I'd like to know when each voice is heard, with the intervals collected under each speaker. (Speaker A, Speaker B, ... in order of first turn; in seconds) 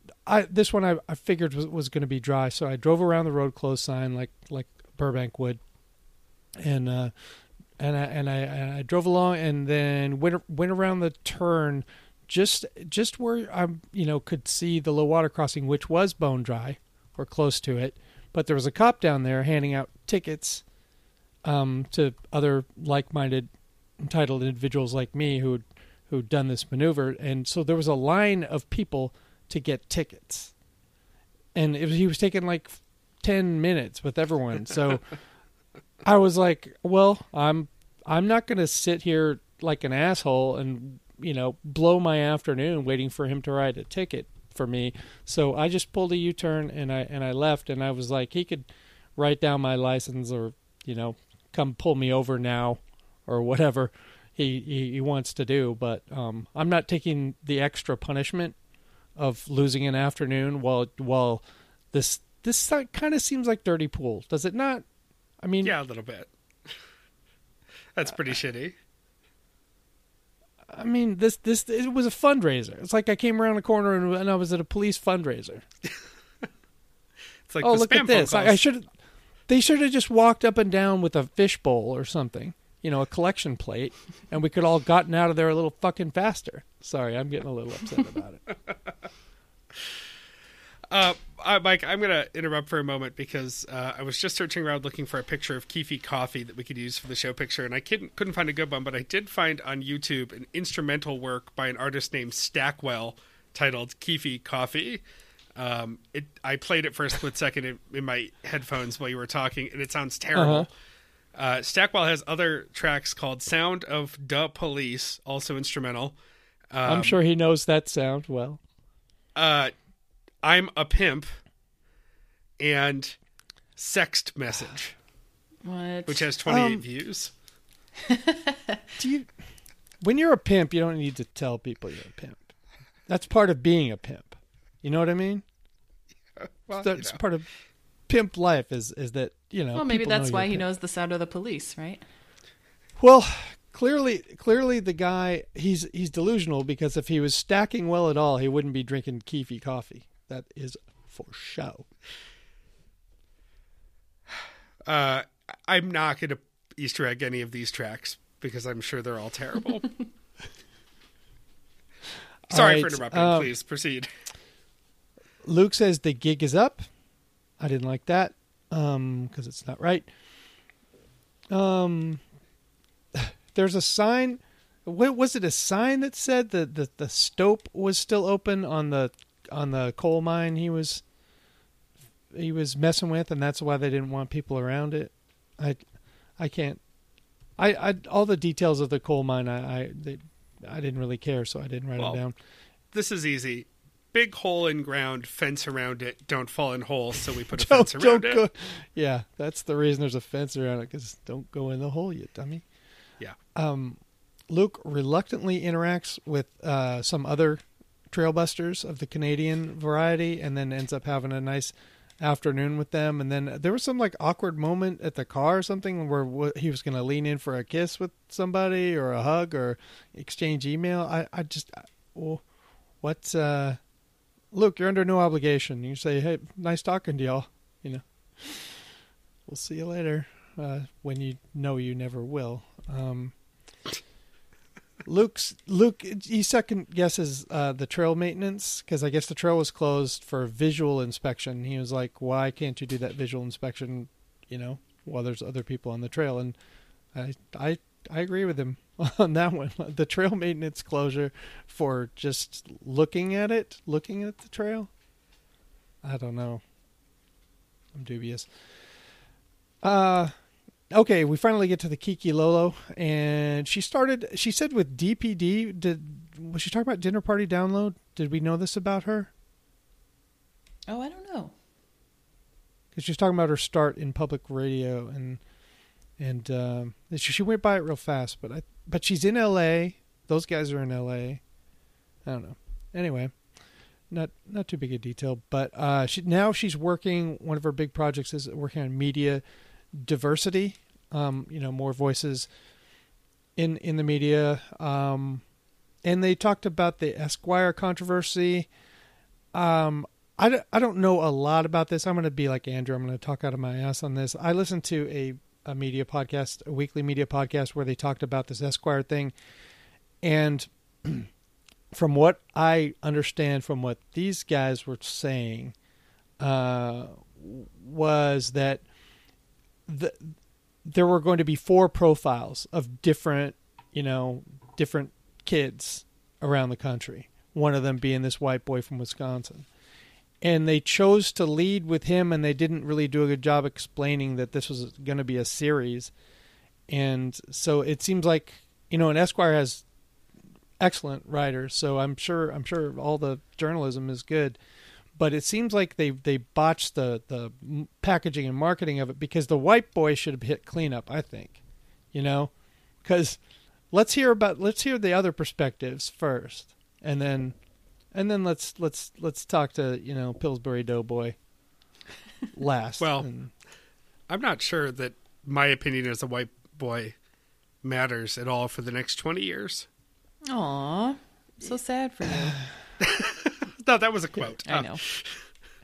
Speaker A: 0.2-5.6, 6.6-7.1, 7.8-20.6, 21.4-30.5, 31.5-35.1, 36.0-58.5, 59.1-64.8, 65.4-65.7, 70.7-75.6, 77.6-78.9, 79.5-88.4, 110.3-110.7, 116.8-118.6, 126.5-126.8, 129.0-129.3, 130.0-132.5, 133.1-135.4, 136.7-137.5, 138.1-140.7, 143.0-151.9, 162.5-163.5, 165.4-166.9, 167.6-170.1, 171.5-172.2, 173.1-181.0, 182.3-185.8, 186.4-186.8, 187.6-192.3, 197.5-202.6, 203.5-204.0, 204.5-222.4, 223.0-223.8, 224.5-228.9, 229.4-233.3, 235.0-246.6, 247.1-254.9, 256.0-256.6, 257.9-258.5, 259.8-260.3, 260.9-269.3, 272.9-275.4, 276.2-281.4, 282.2-283.4, 284.1-292.5, 293.6-295.4, 296.0-298.7, 299.5-309.3, 310.2-311.3, 311.9-315.7, 316.4-318.8, 319.9-329.7, 330.4-336.1, 336.9-339.8, 340.8-344.6, 345.1-351.6, 352.1-352.5, 353.0-353.4, 353.9-357.6, 358.1-361.4, 362.5-363.5
Speaker B: 65.6-66.8, 67.9-68.7, 77.5-78.6, 90.9-105.0, 105.5-110.7, 111.3-116.2, 116.7-117.2, 119.3-119.7, 120.4-121.3, 122.6-123.2, 123.8-125.0, 126.0-127.3, 136.4-137.2, 154.9-159.9, 162.5-164.1, 192.9-198.4, 363.0-363.2, 364.3-367.1, 367.8-369.9, 373.0-375.4
Speaker C: 125.6-126.3, 128.1-128.8, 139.7-142.0, 270.9-271.5, 370.5-372.6, 374.6-375.0